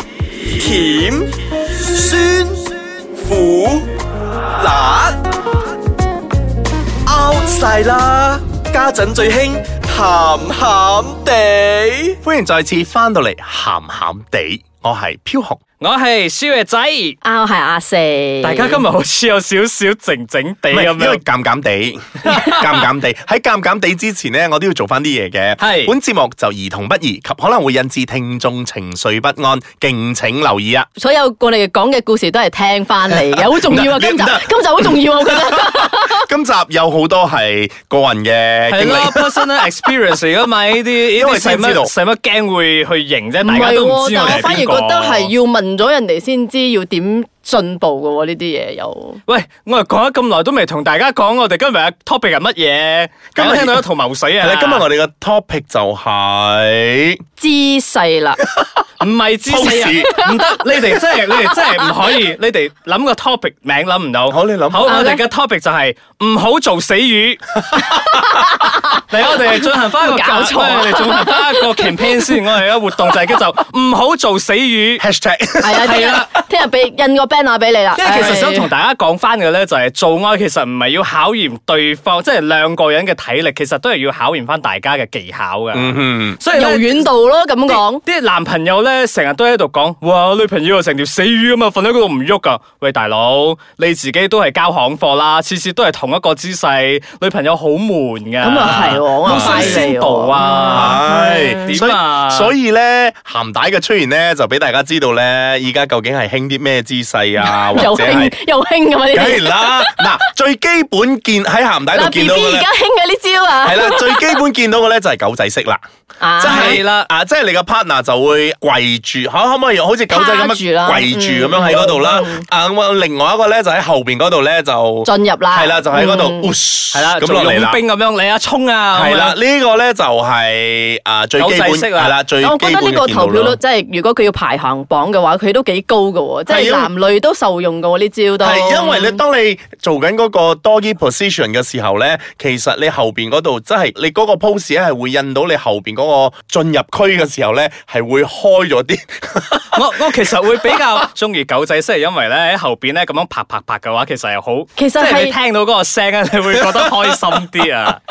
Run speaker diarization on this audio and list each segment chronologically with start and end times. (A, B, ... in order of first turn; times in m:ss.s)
0:00.4-0:01.3 A
0:01.9-0:03.9 A
0:04.6-0:05.2 A
0:07.0-0:12.2 A
0:12.2-0:15.6 B
0:15.8-0:17.2 C
0:17.2-0:18.8 D
0:18.4-0:21.2 C
0:20.7-0:30.9 B
0:22.2-0:22.8 C
0:25.6-0:25.9 C
0:31.0-0:36.2 D
0:33.5-0:39.5 B
0:38.7-0:45.3 C
0:41.1-0:41.9 B
0:43.4-0:49.2 D
0:49.2-0:54.8 C
0:53.3-0:53.8 B
0:54.4-0:57.2 B
0:57.4-0:58.4 D
0:59.0-1:07.6 C
0:59.4-1:00.2 B
1:04.3-1:04.9 B
1:04.8-1:05.2 D
1:07.7-1:08.3 B
1:08.0-1:09.0 D
1:09.1-1:15.0 C
1:09.9-1:12.0 D
1:15.0-1:16.3 B
1:15.6-1:18.7 D
1:15.8-1:16.3 C
1:17.9-1:27.1 C
1:25.7-1:26.4 B
1:26.5-1:28.0 D
1:27.7-1:41.0 C
1:38.4-1:41.7 D
1:38.6-1:39.8 B
1:40.7-1:48.3 B
1:41.6-1:42.5 C
1:47.4-1:50.2 D
1:49.1-1:52.7 B
1:51.9-1:54.4 D
1:53.6-1:55.8 B
1:56.2-1:56.8 D
1:56.4-2:07.8 B
1:56.4-1:57.1 C
2:00.1-2:02.4 D
2:05.0-2:06.5 D
2:06.9-2:09.4 C
2:08.9-2:13.6 B
2:11.4-2:12.2 C
2:12.4-2:19.2 D
2:16.5-2:16.9 B
2:18.4-2:29.8 B
2:29.7-2:38.0 C
2:34.8-2:35.3 D